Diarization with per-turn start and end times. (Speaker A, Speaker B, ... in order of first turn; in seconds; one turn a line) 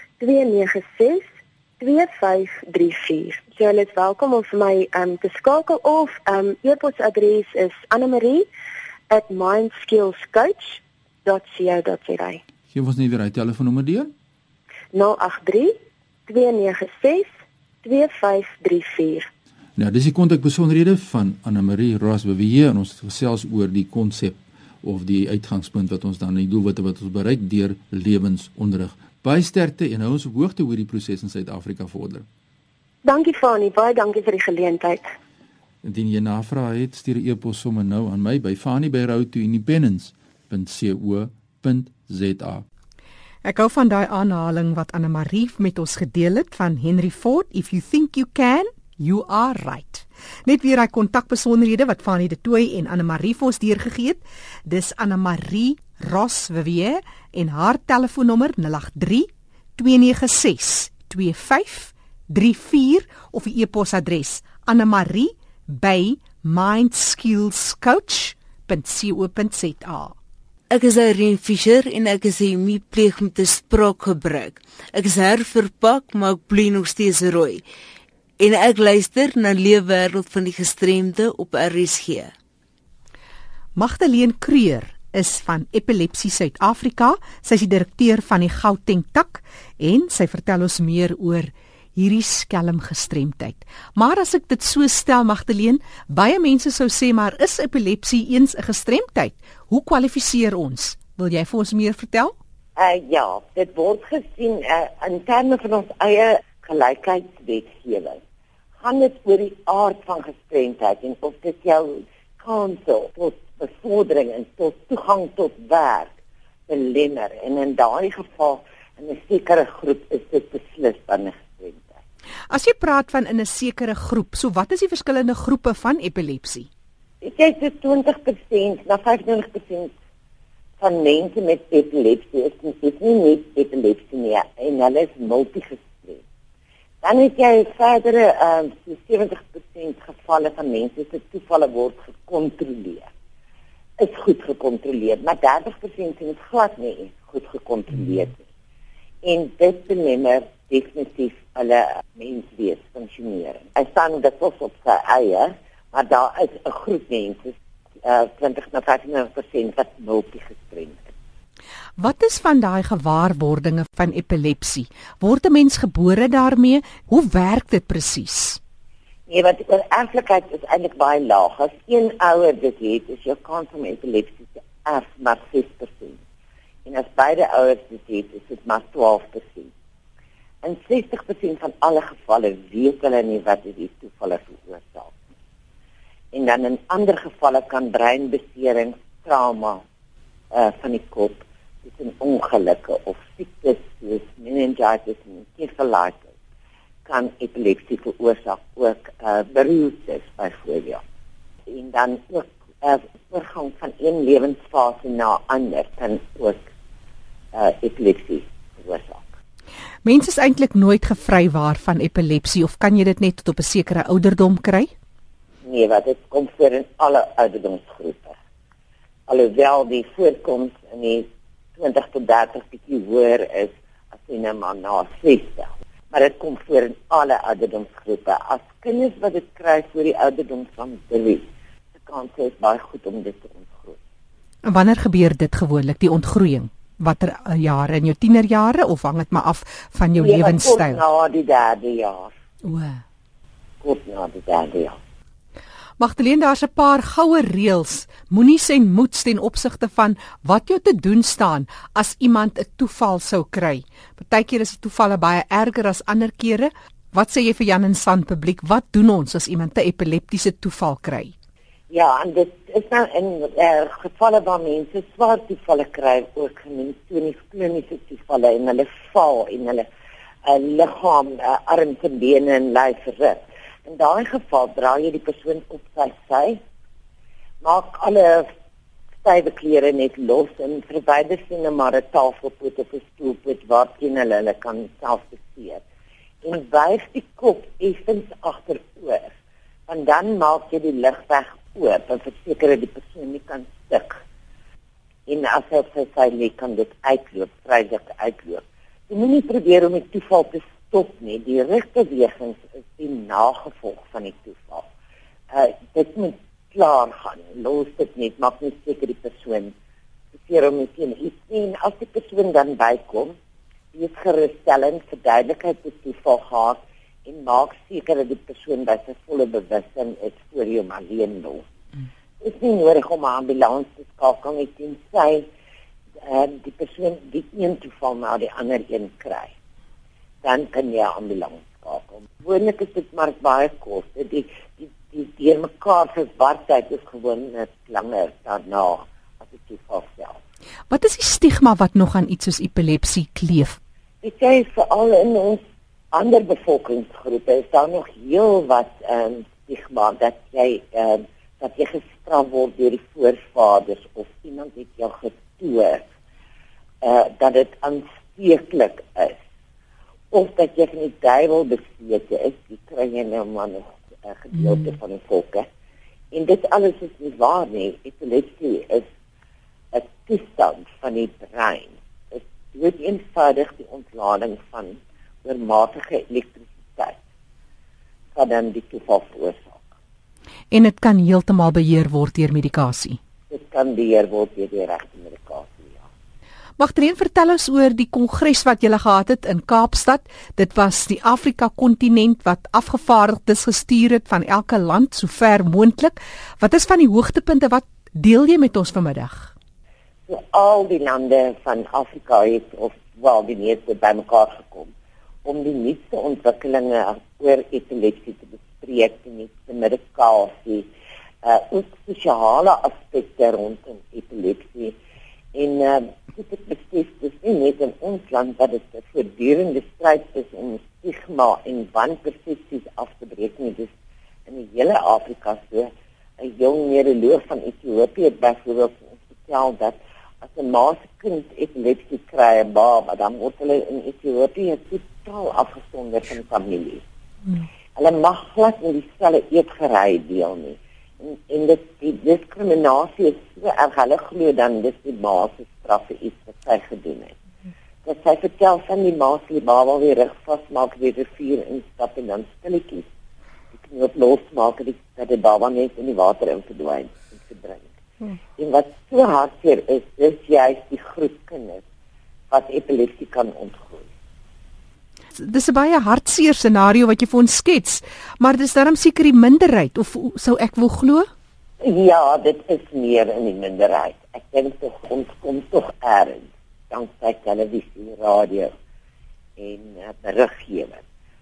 Speaker A: 0.2-1.2
Speaker A: 1.8-8.5
Speaker A: 9.1-12.4
Speaker B: 12.7-14.1
Speaker A: 14.9-15.8
Speaker A: 16.3-17.3
Speaker A: 17.8-19.3
Speaker B: 19.8-32.2
Speaker A: 33.0-35.1
Speaker B: 35.8-42.6
Speaker C: 43.5-70.2
Speaker D: 70.7-77.6
Speaker D: 78.4-82.3
Speaker C: 83.8-102.3
Speaker E: 102.8-108.2
Speaker E: 108.8-116.1
Speaker E: 116.7-122.0
Speaker C: 122.5-126.7
Speaker E: 127.2-129.9
Speaker E: 130.8-136.2
Speaker E: 137.0-143.1
Speaker E: 144.0-148.4
Speaker E: 149.2-161.0
Speaker C: 162.0-168.6
Speaker E: 169.3-176.2
Speaker E: 176.8-179.7
Speaker E: 180.6-185.1
Speaker E: 186.3-189.8
Speaker E: 190.5-196.3
Speaker E: 197.1-201.0
Speaker E: 201.7-206.6
Speaker E: 207.5-209.2
Speaker C: 210.0-214.9
Speaker E: 215.7-218.3
Speaker E: 219.3-231.5
Speaker E: 232.0-234.0
Speaker C: 234.6-241.0
Speaker E: 240.2-242.3
Speaker C: 242.6-243.0
Speaker E: 243.8-245.0
Speaker C: 246.0-261.3
Speaker E: 261.9-269.9
Speaker E: 270.4-276.6
Speaker E: 277.6-278.5
Speaker E: 279.2-285.8
Speaker E: 286.4-289.3
Speaker E: 289.9-294.2
Speaker E: 295.3-304.9
Speaker E: 305.5-309.7
Speaker E: 310.3-313.4
Speaker E: 313.9-321.6
Speaker E: 322.4-325.5
Speaker E: 326.2-329.5
Speaker E: 330.4-340.4
Speaker C: 340.9-343.8
Speaker E: 344.2-356.1
Speaker E: 357.0-359.4
Speaker E: 360.3-365.7
Speaker E: 366.3-369.1
Speaker E: 369.9-377.2
Speaker E: 378.4-379.8
Speaker C: 380.7-383.2
Speaker E: 383.5-386.1
Speaker C: 386.8-399.5
Speaker E: 400.3-404.9
Speaker E: 405.4-410.9
Speaker E: 411.4-415.0
Speaker E: 415.5-423.9
Speaker E: 424.5-437.0
Speaker E: 438.0-447.4
Speaker E: 448.1-453.1
Speaker E: 453.8-457.9
Speaker E: 458.6-461.8
Speaker E: 462.5-464.1
Speaker C: 465.4-471.3
Speaker E: 471.8-478.7
Speaker E: 479.6-481.0